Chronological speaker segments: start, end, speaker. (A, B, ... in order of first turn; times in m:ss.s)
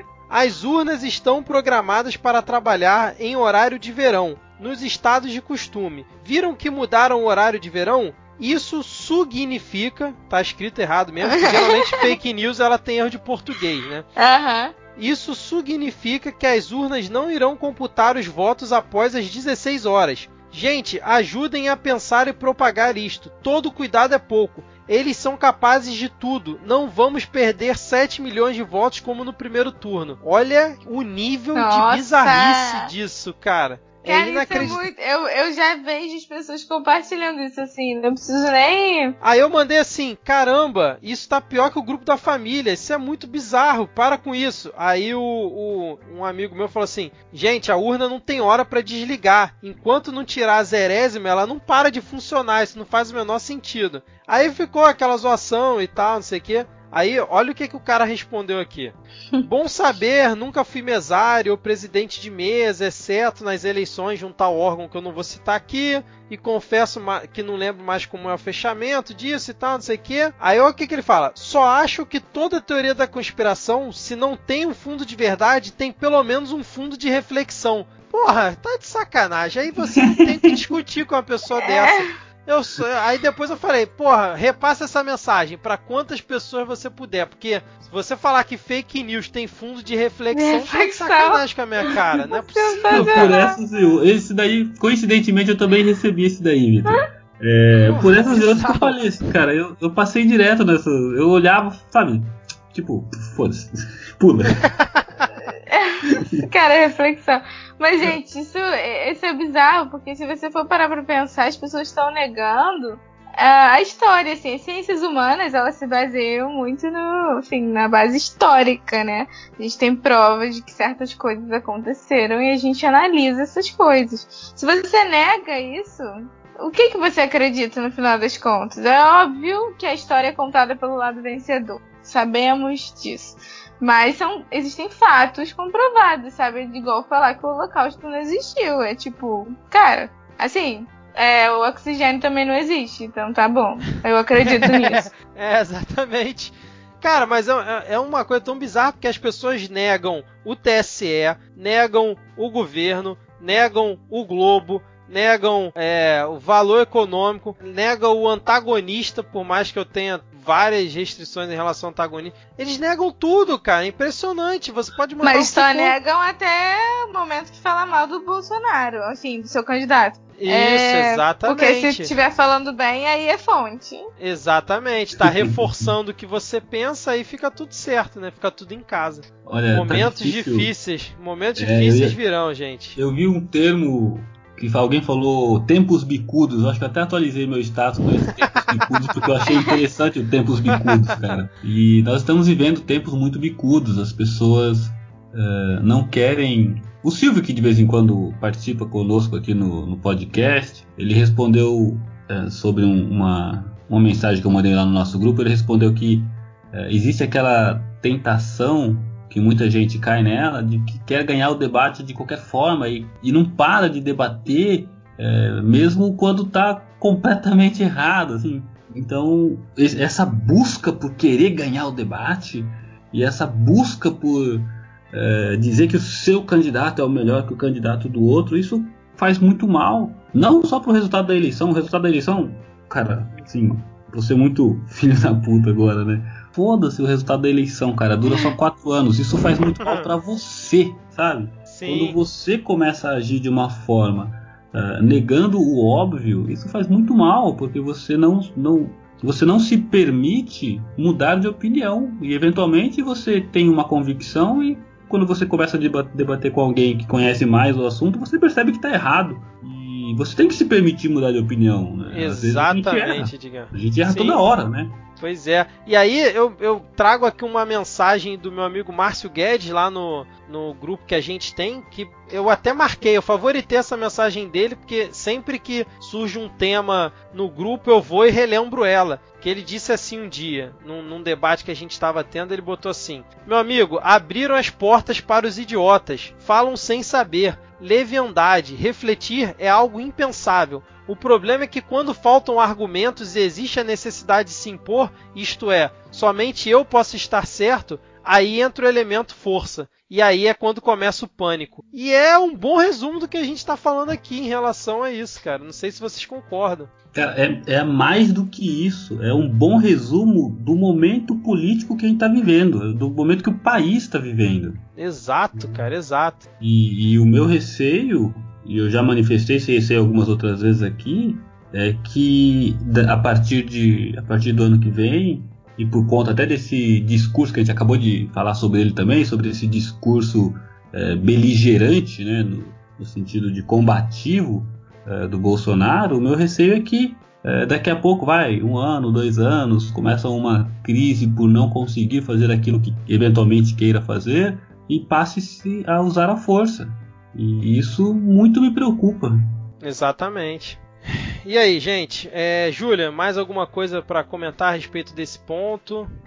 0:00.3-0:14.1 A
0:11.2-0:12.2 B
0:14.2-0:14.7 B
0:15.0-0:34.8 A
0:31.6-0:32.9 B
0:34.0-0:39.1 B
0:39.2-1:33.4 A
1:19.9-1:20.6 C
1:21.6-1:22.0 B
1:30.3-1:33.6 B
1:32.9-1:44.7 C
1:37.8-1:39.0 A
1:45.5-2:25.1 B
2:24.5-2:46.0 A
2:45.2-2:54.1 B
2:50.4-2:52.1 A
2:54.2-3:03.0 A
2:55.2-2:55.8 C
2:59.5-3:00.7 C
3:01.6-3:02.2 C
3:03.0-4:25.0 C
3:09.2-3:09.5 A
3:10.7-3:11.0 A
3:59.8-4:00.1 A
4:01.7-4:02.2 A
4:22.1-4:24.4 A
4:25.2-5:06.9 A
5:07.1-5:14.8 C
5:15.0-5:16.5 A
5:16.6-5:49.4 C
5:49.8-5:50.8 A
5:51.4-5:56.1 A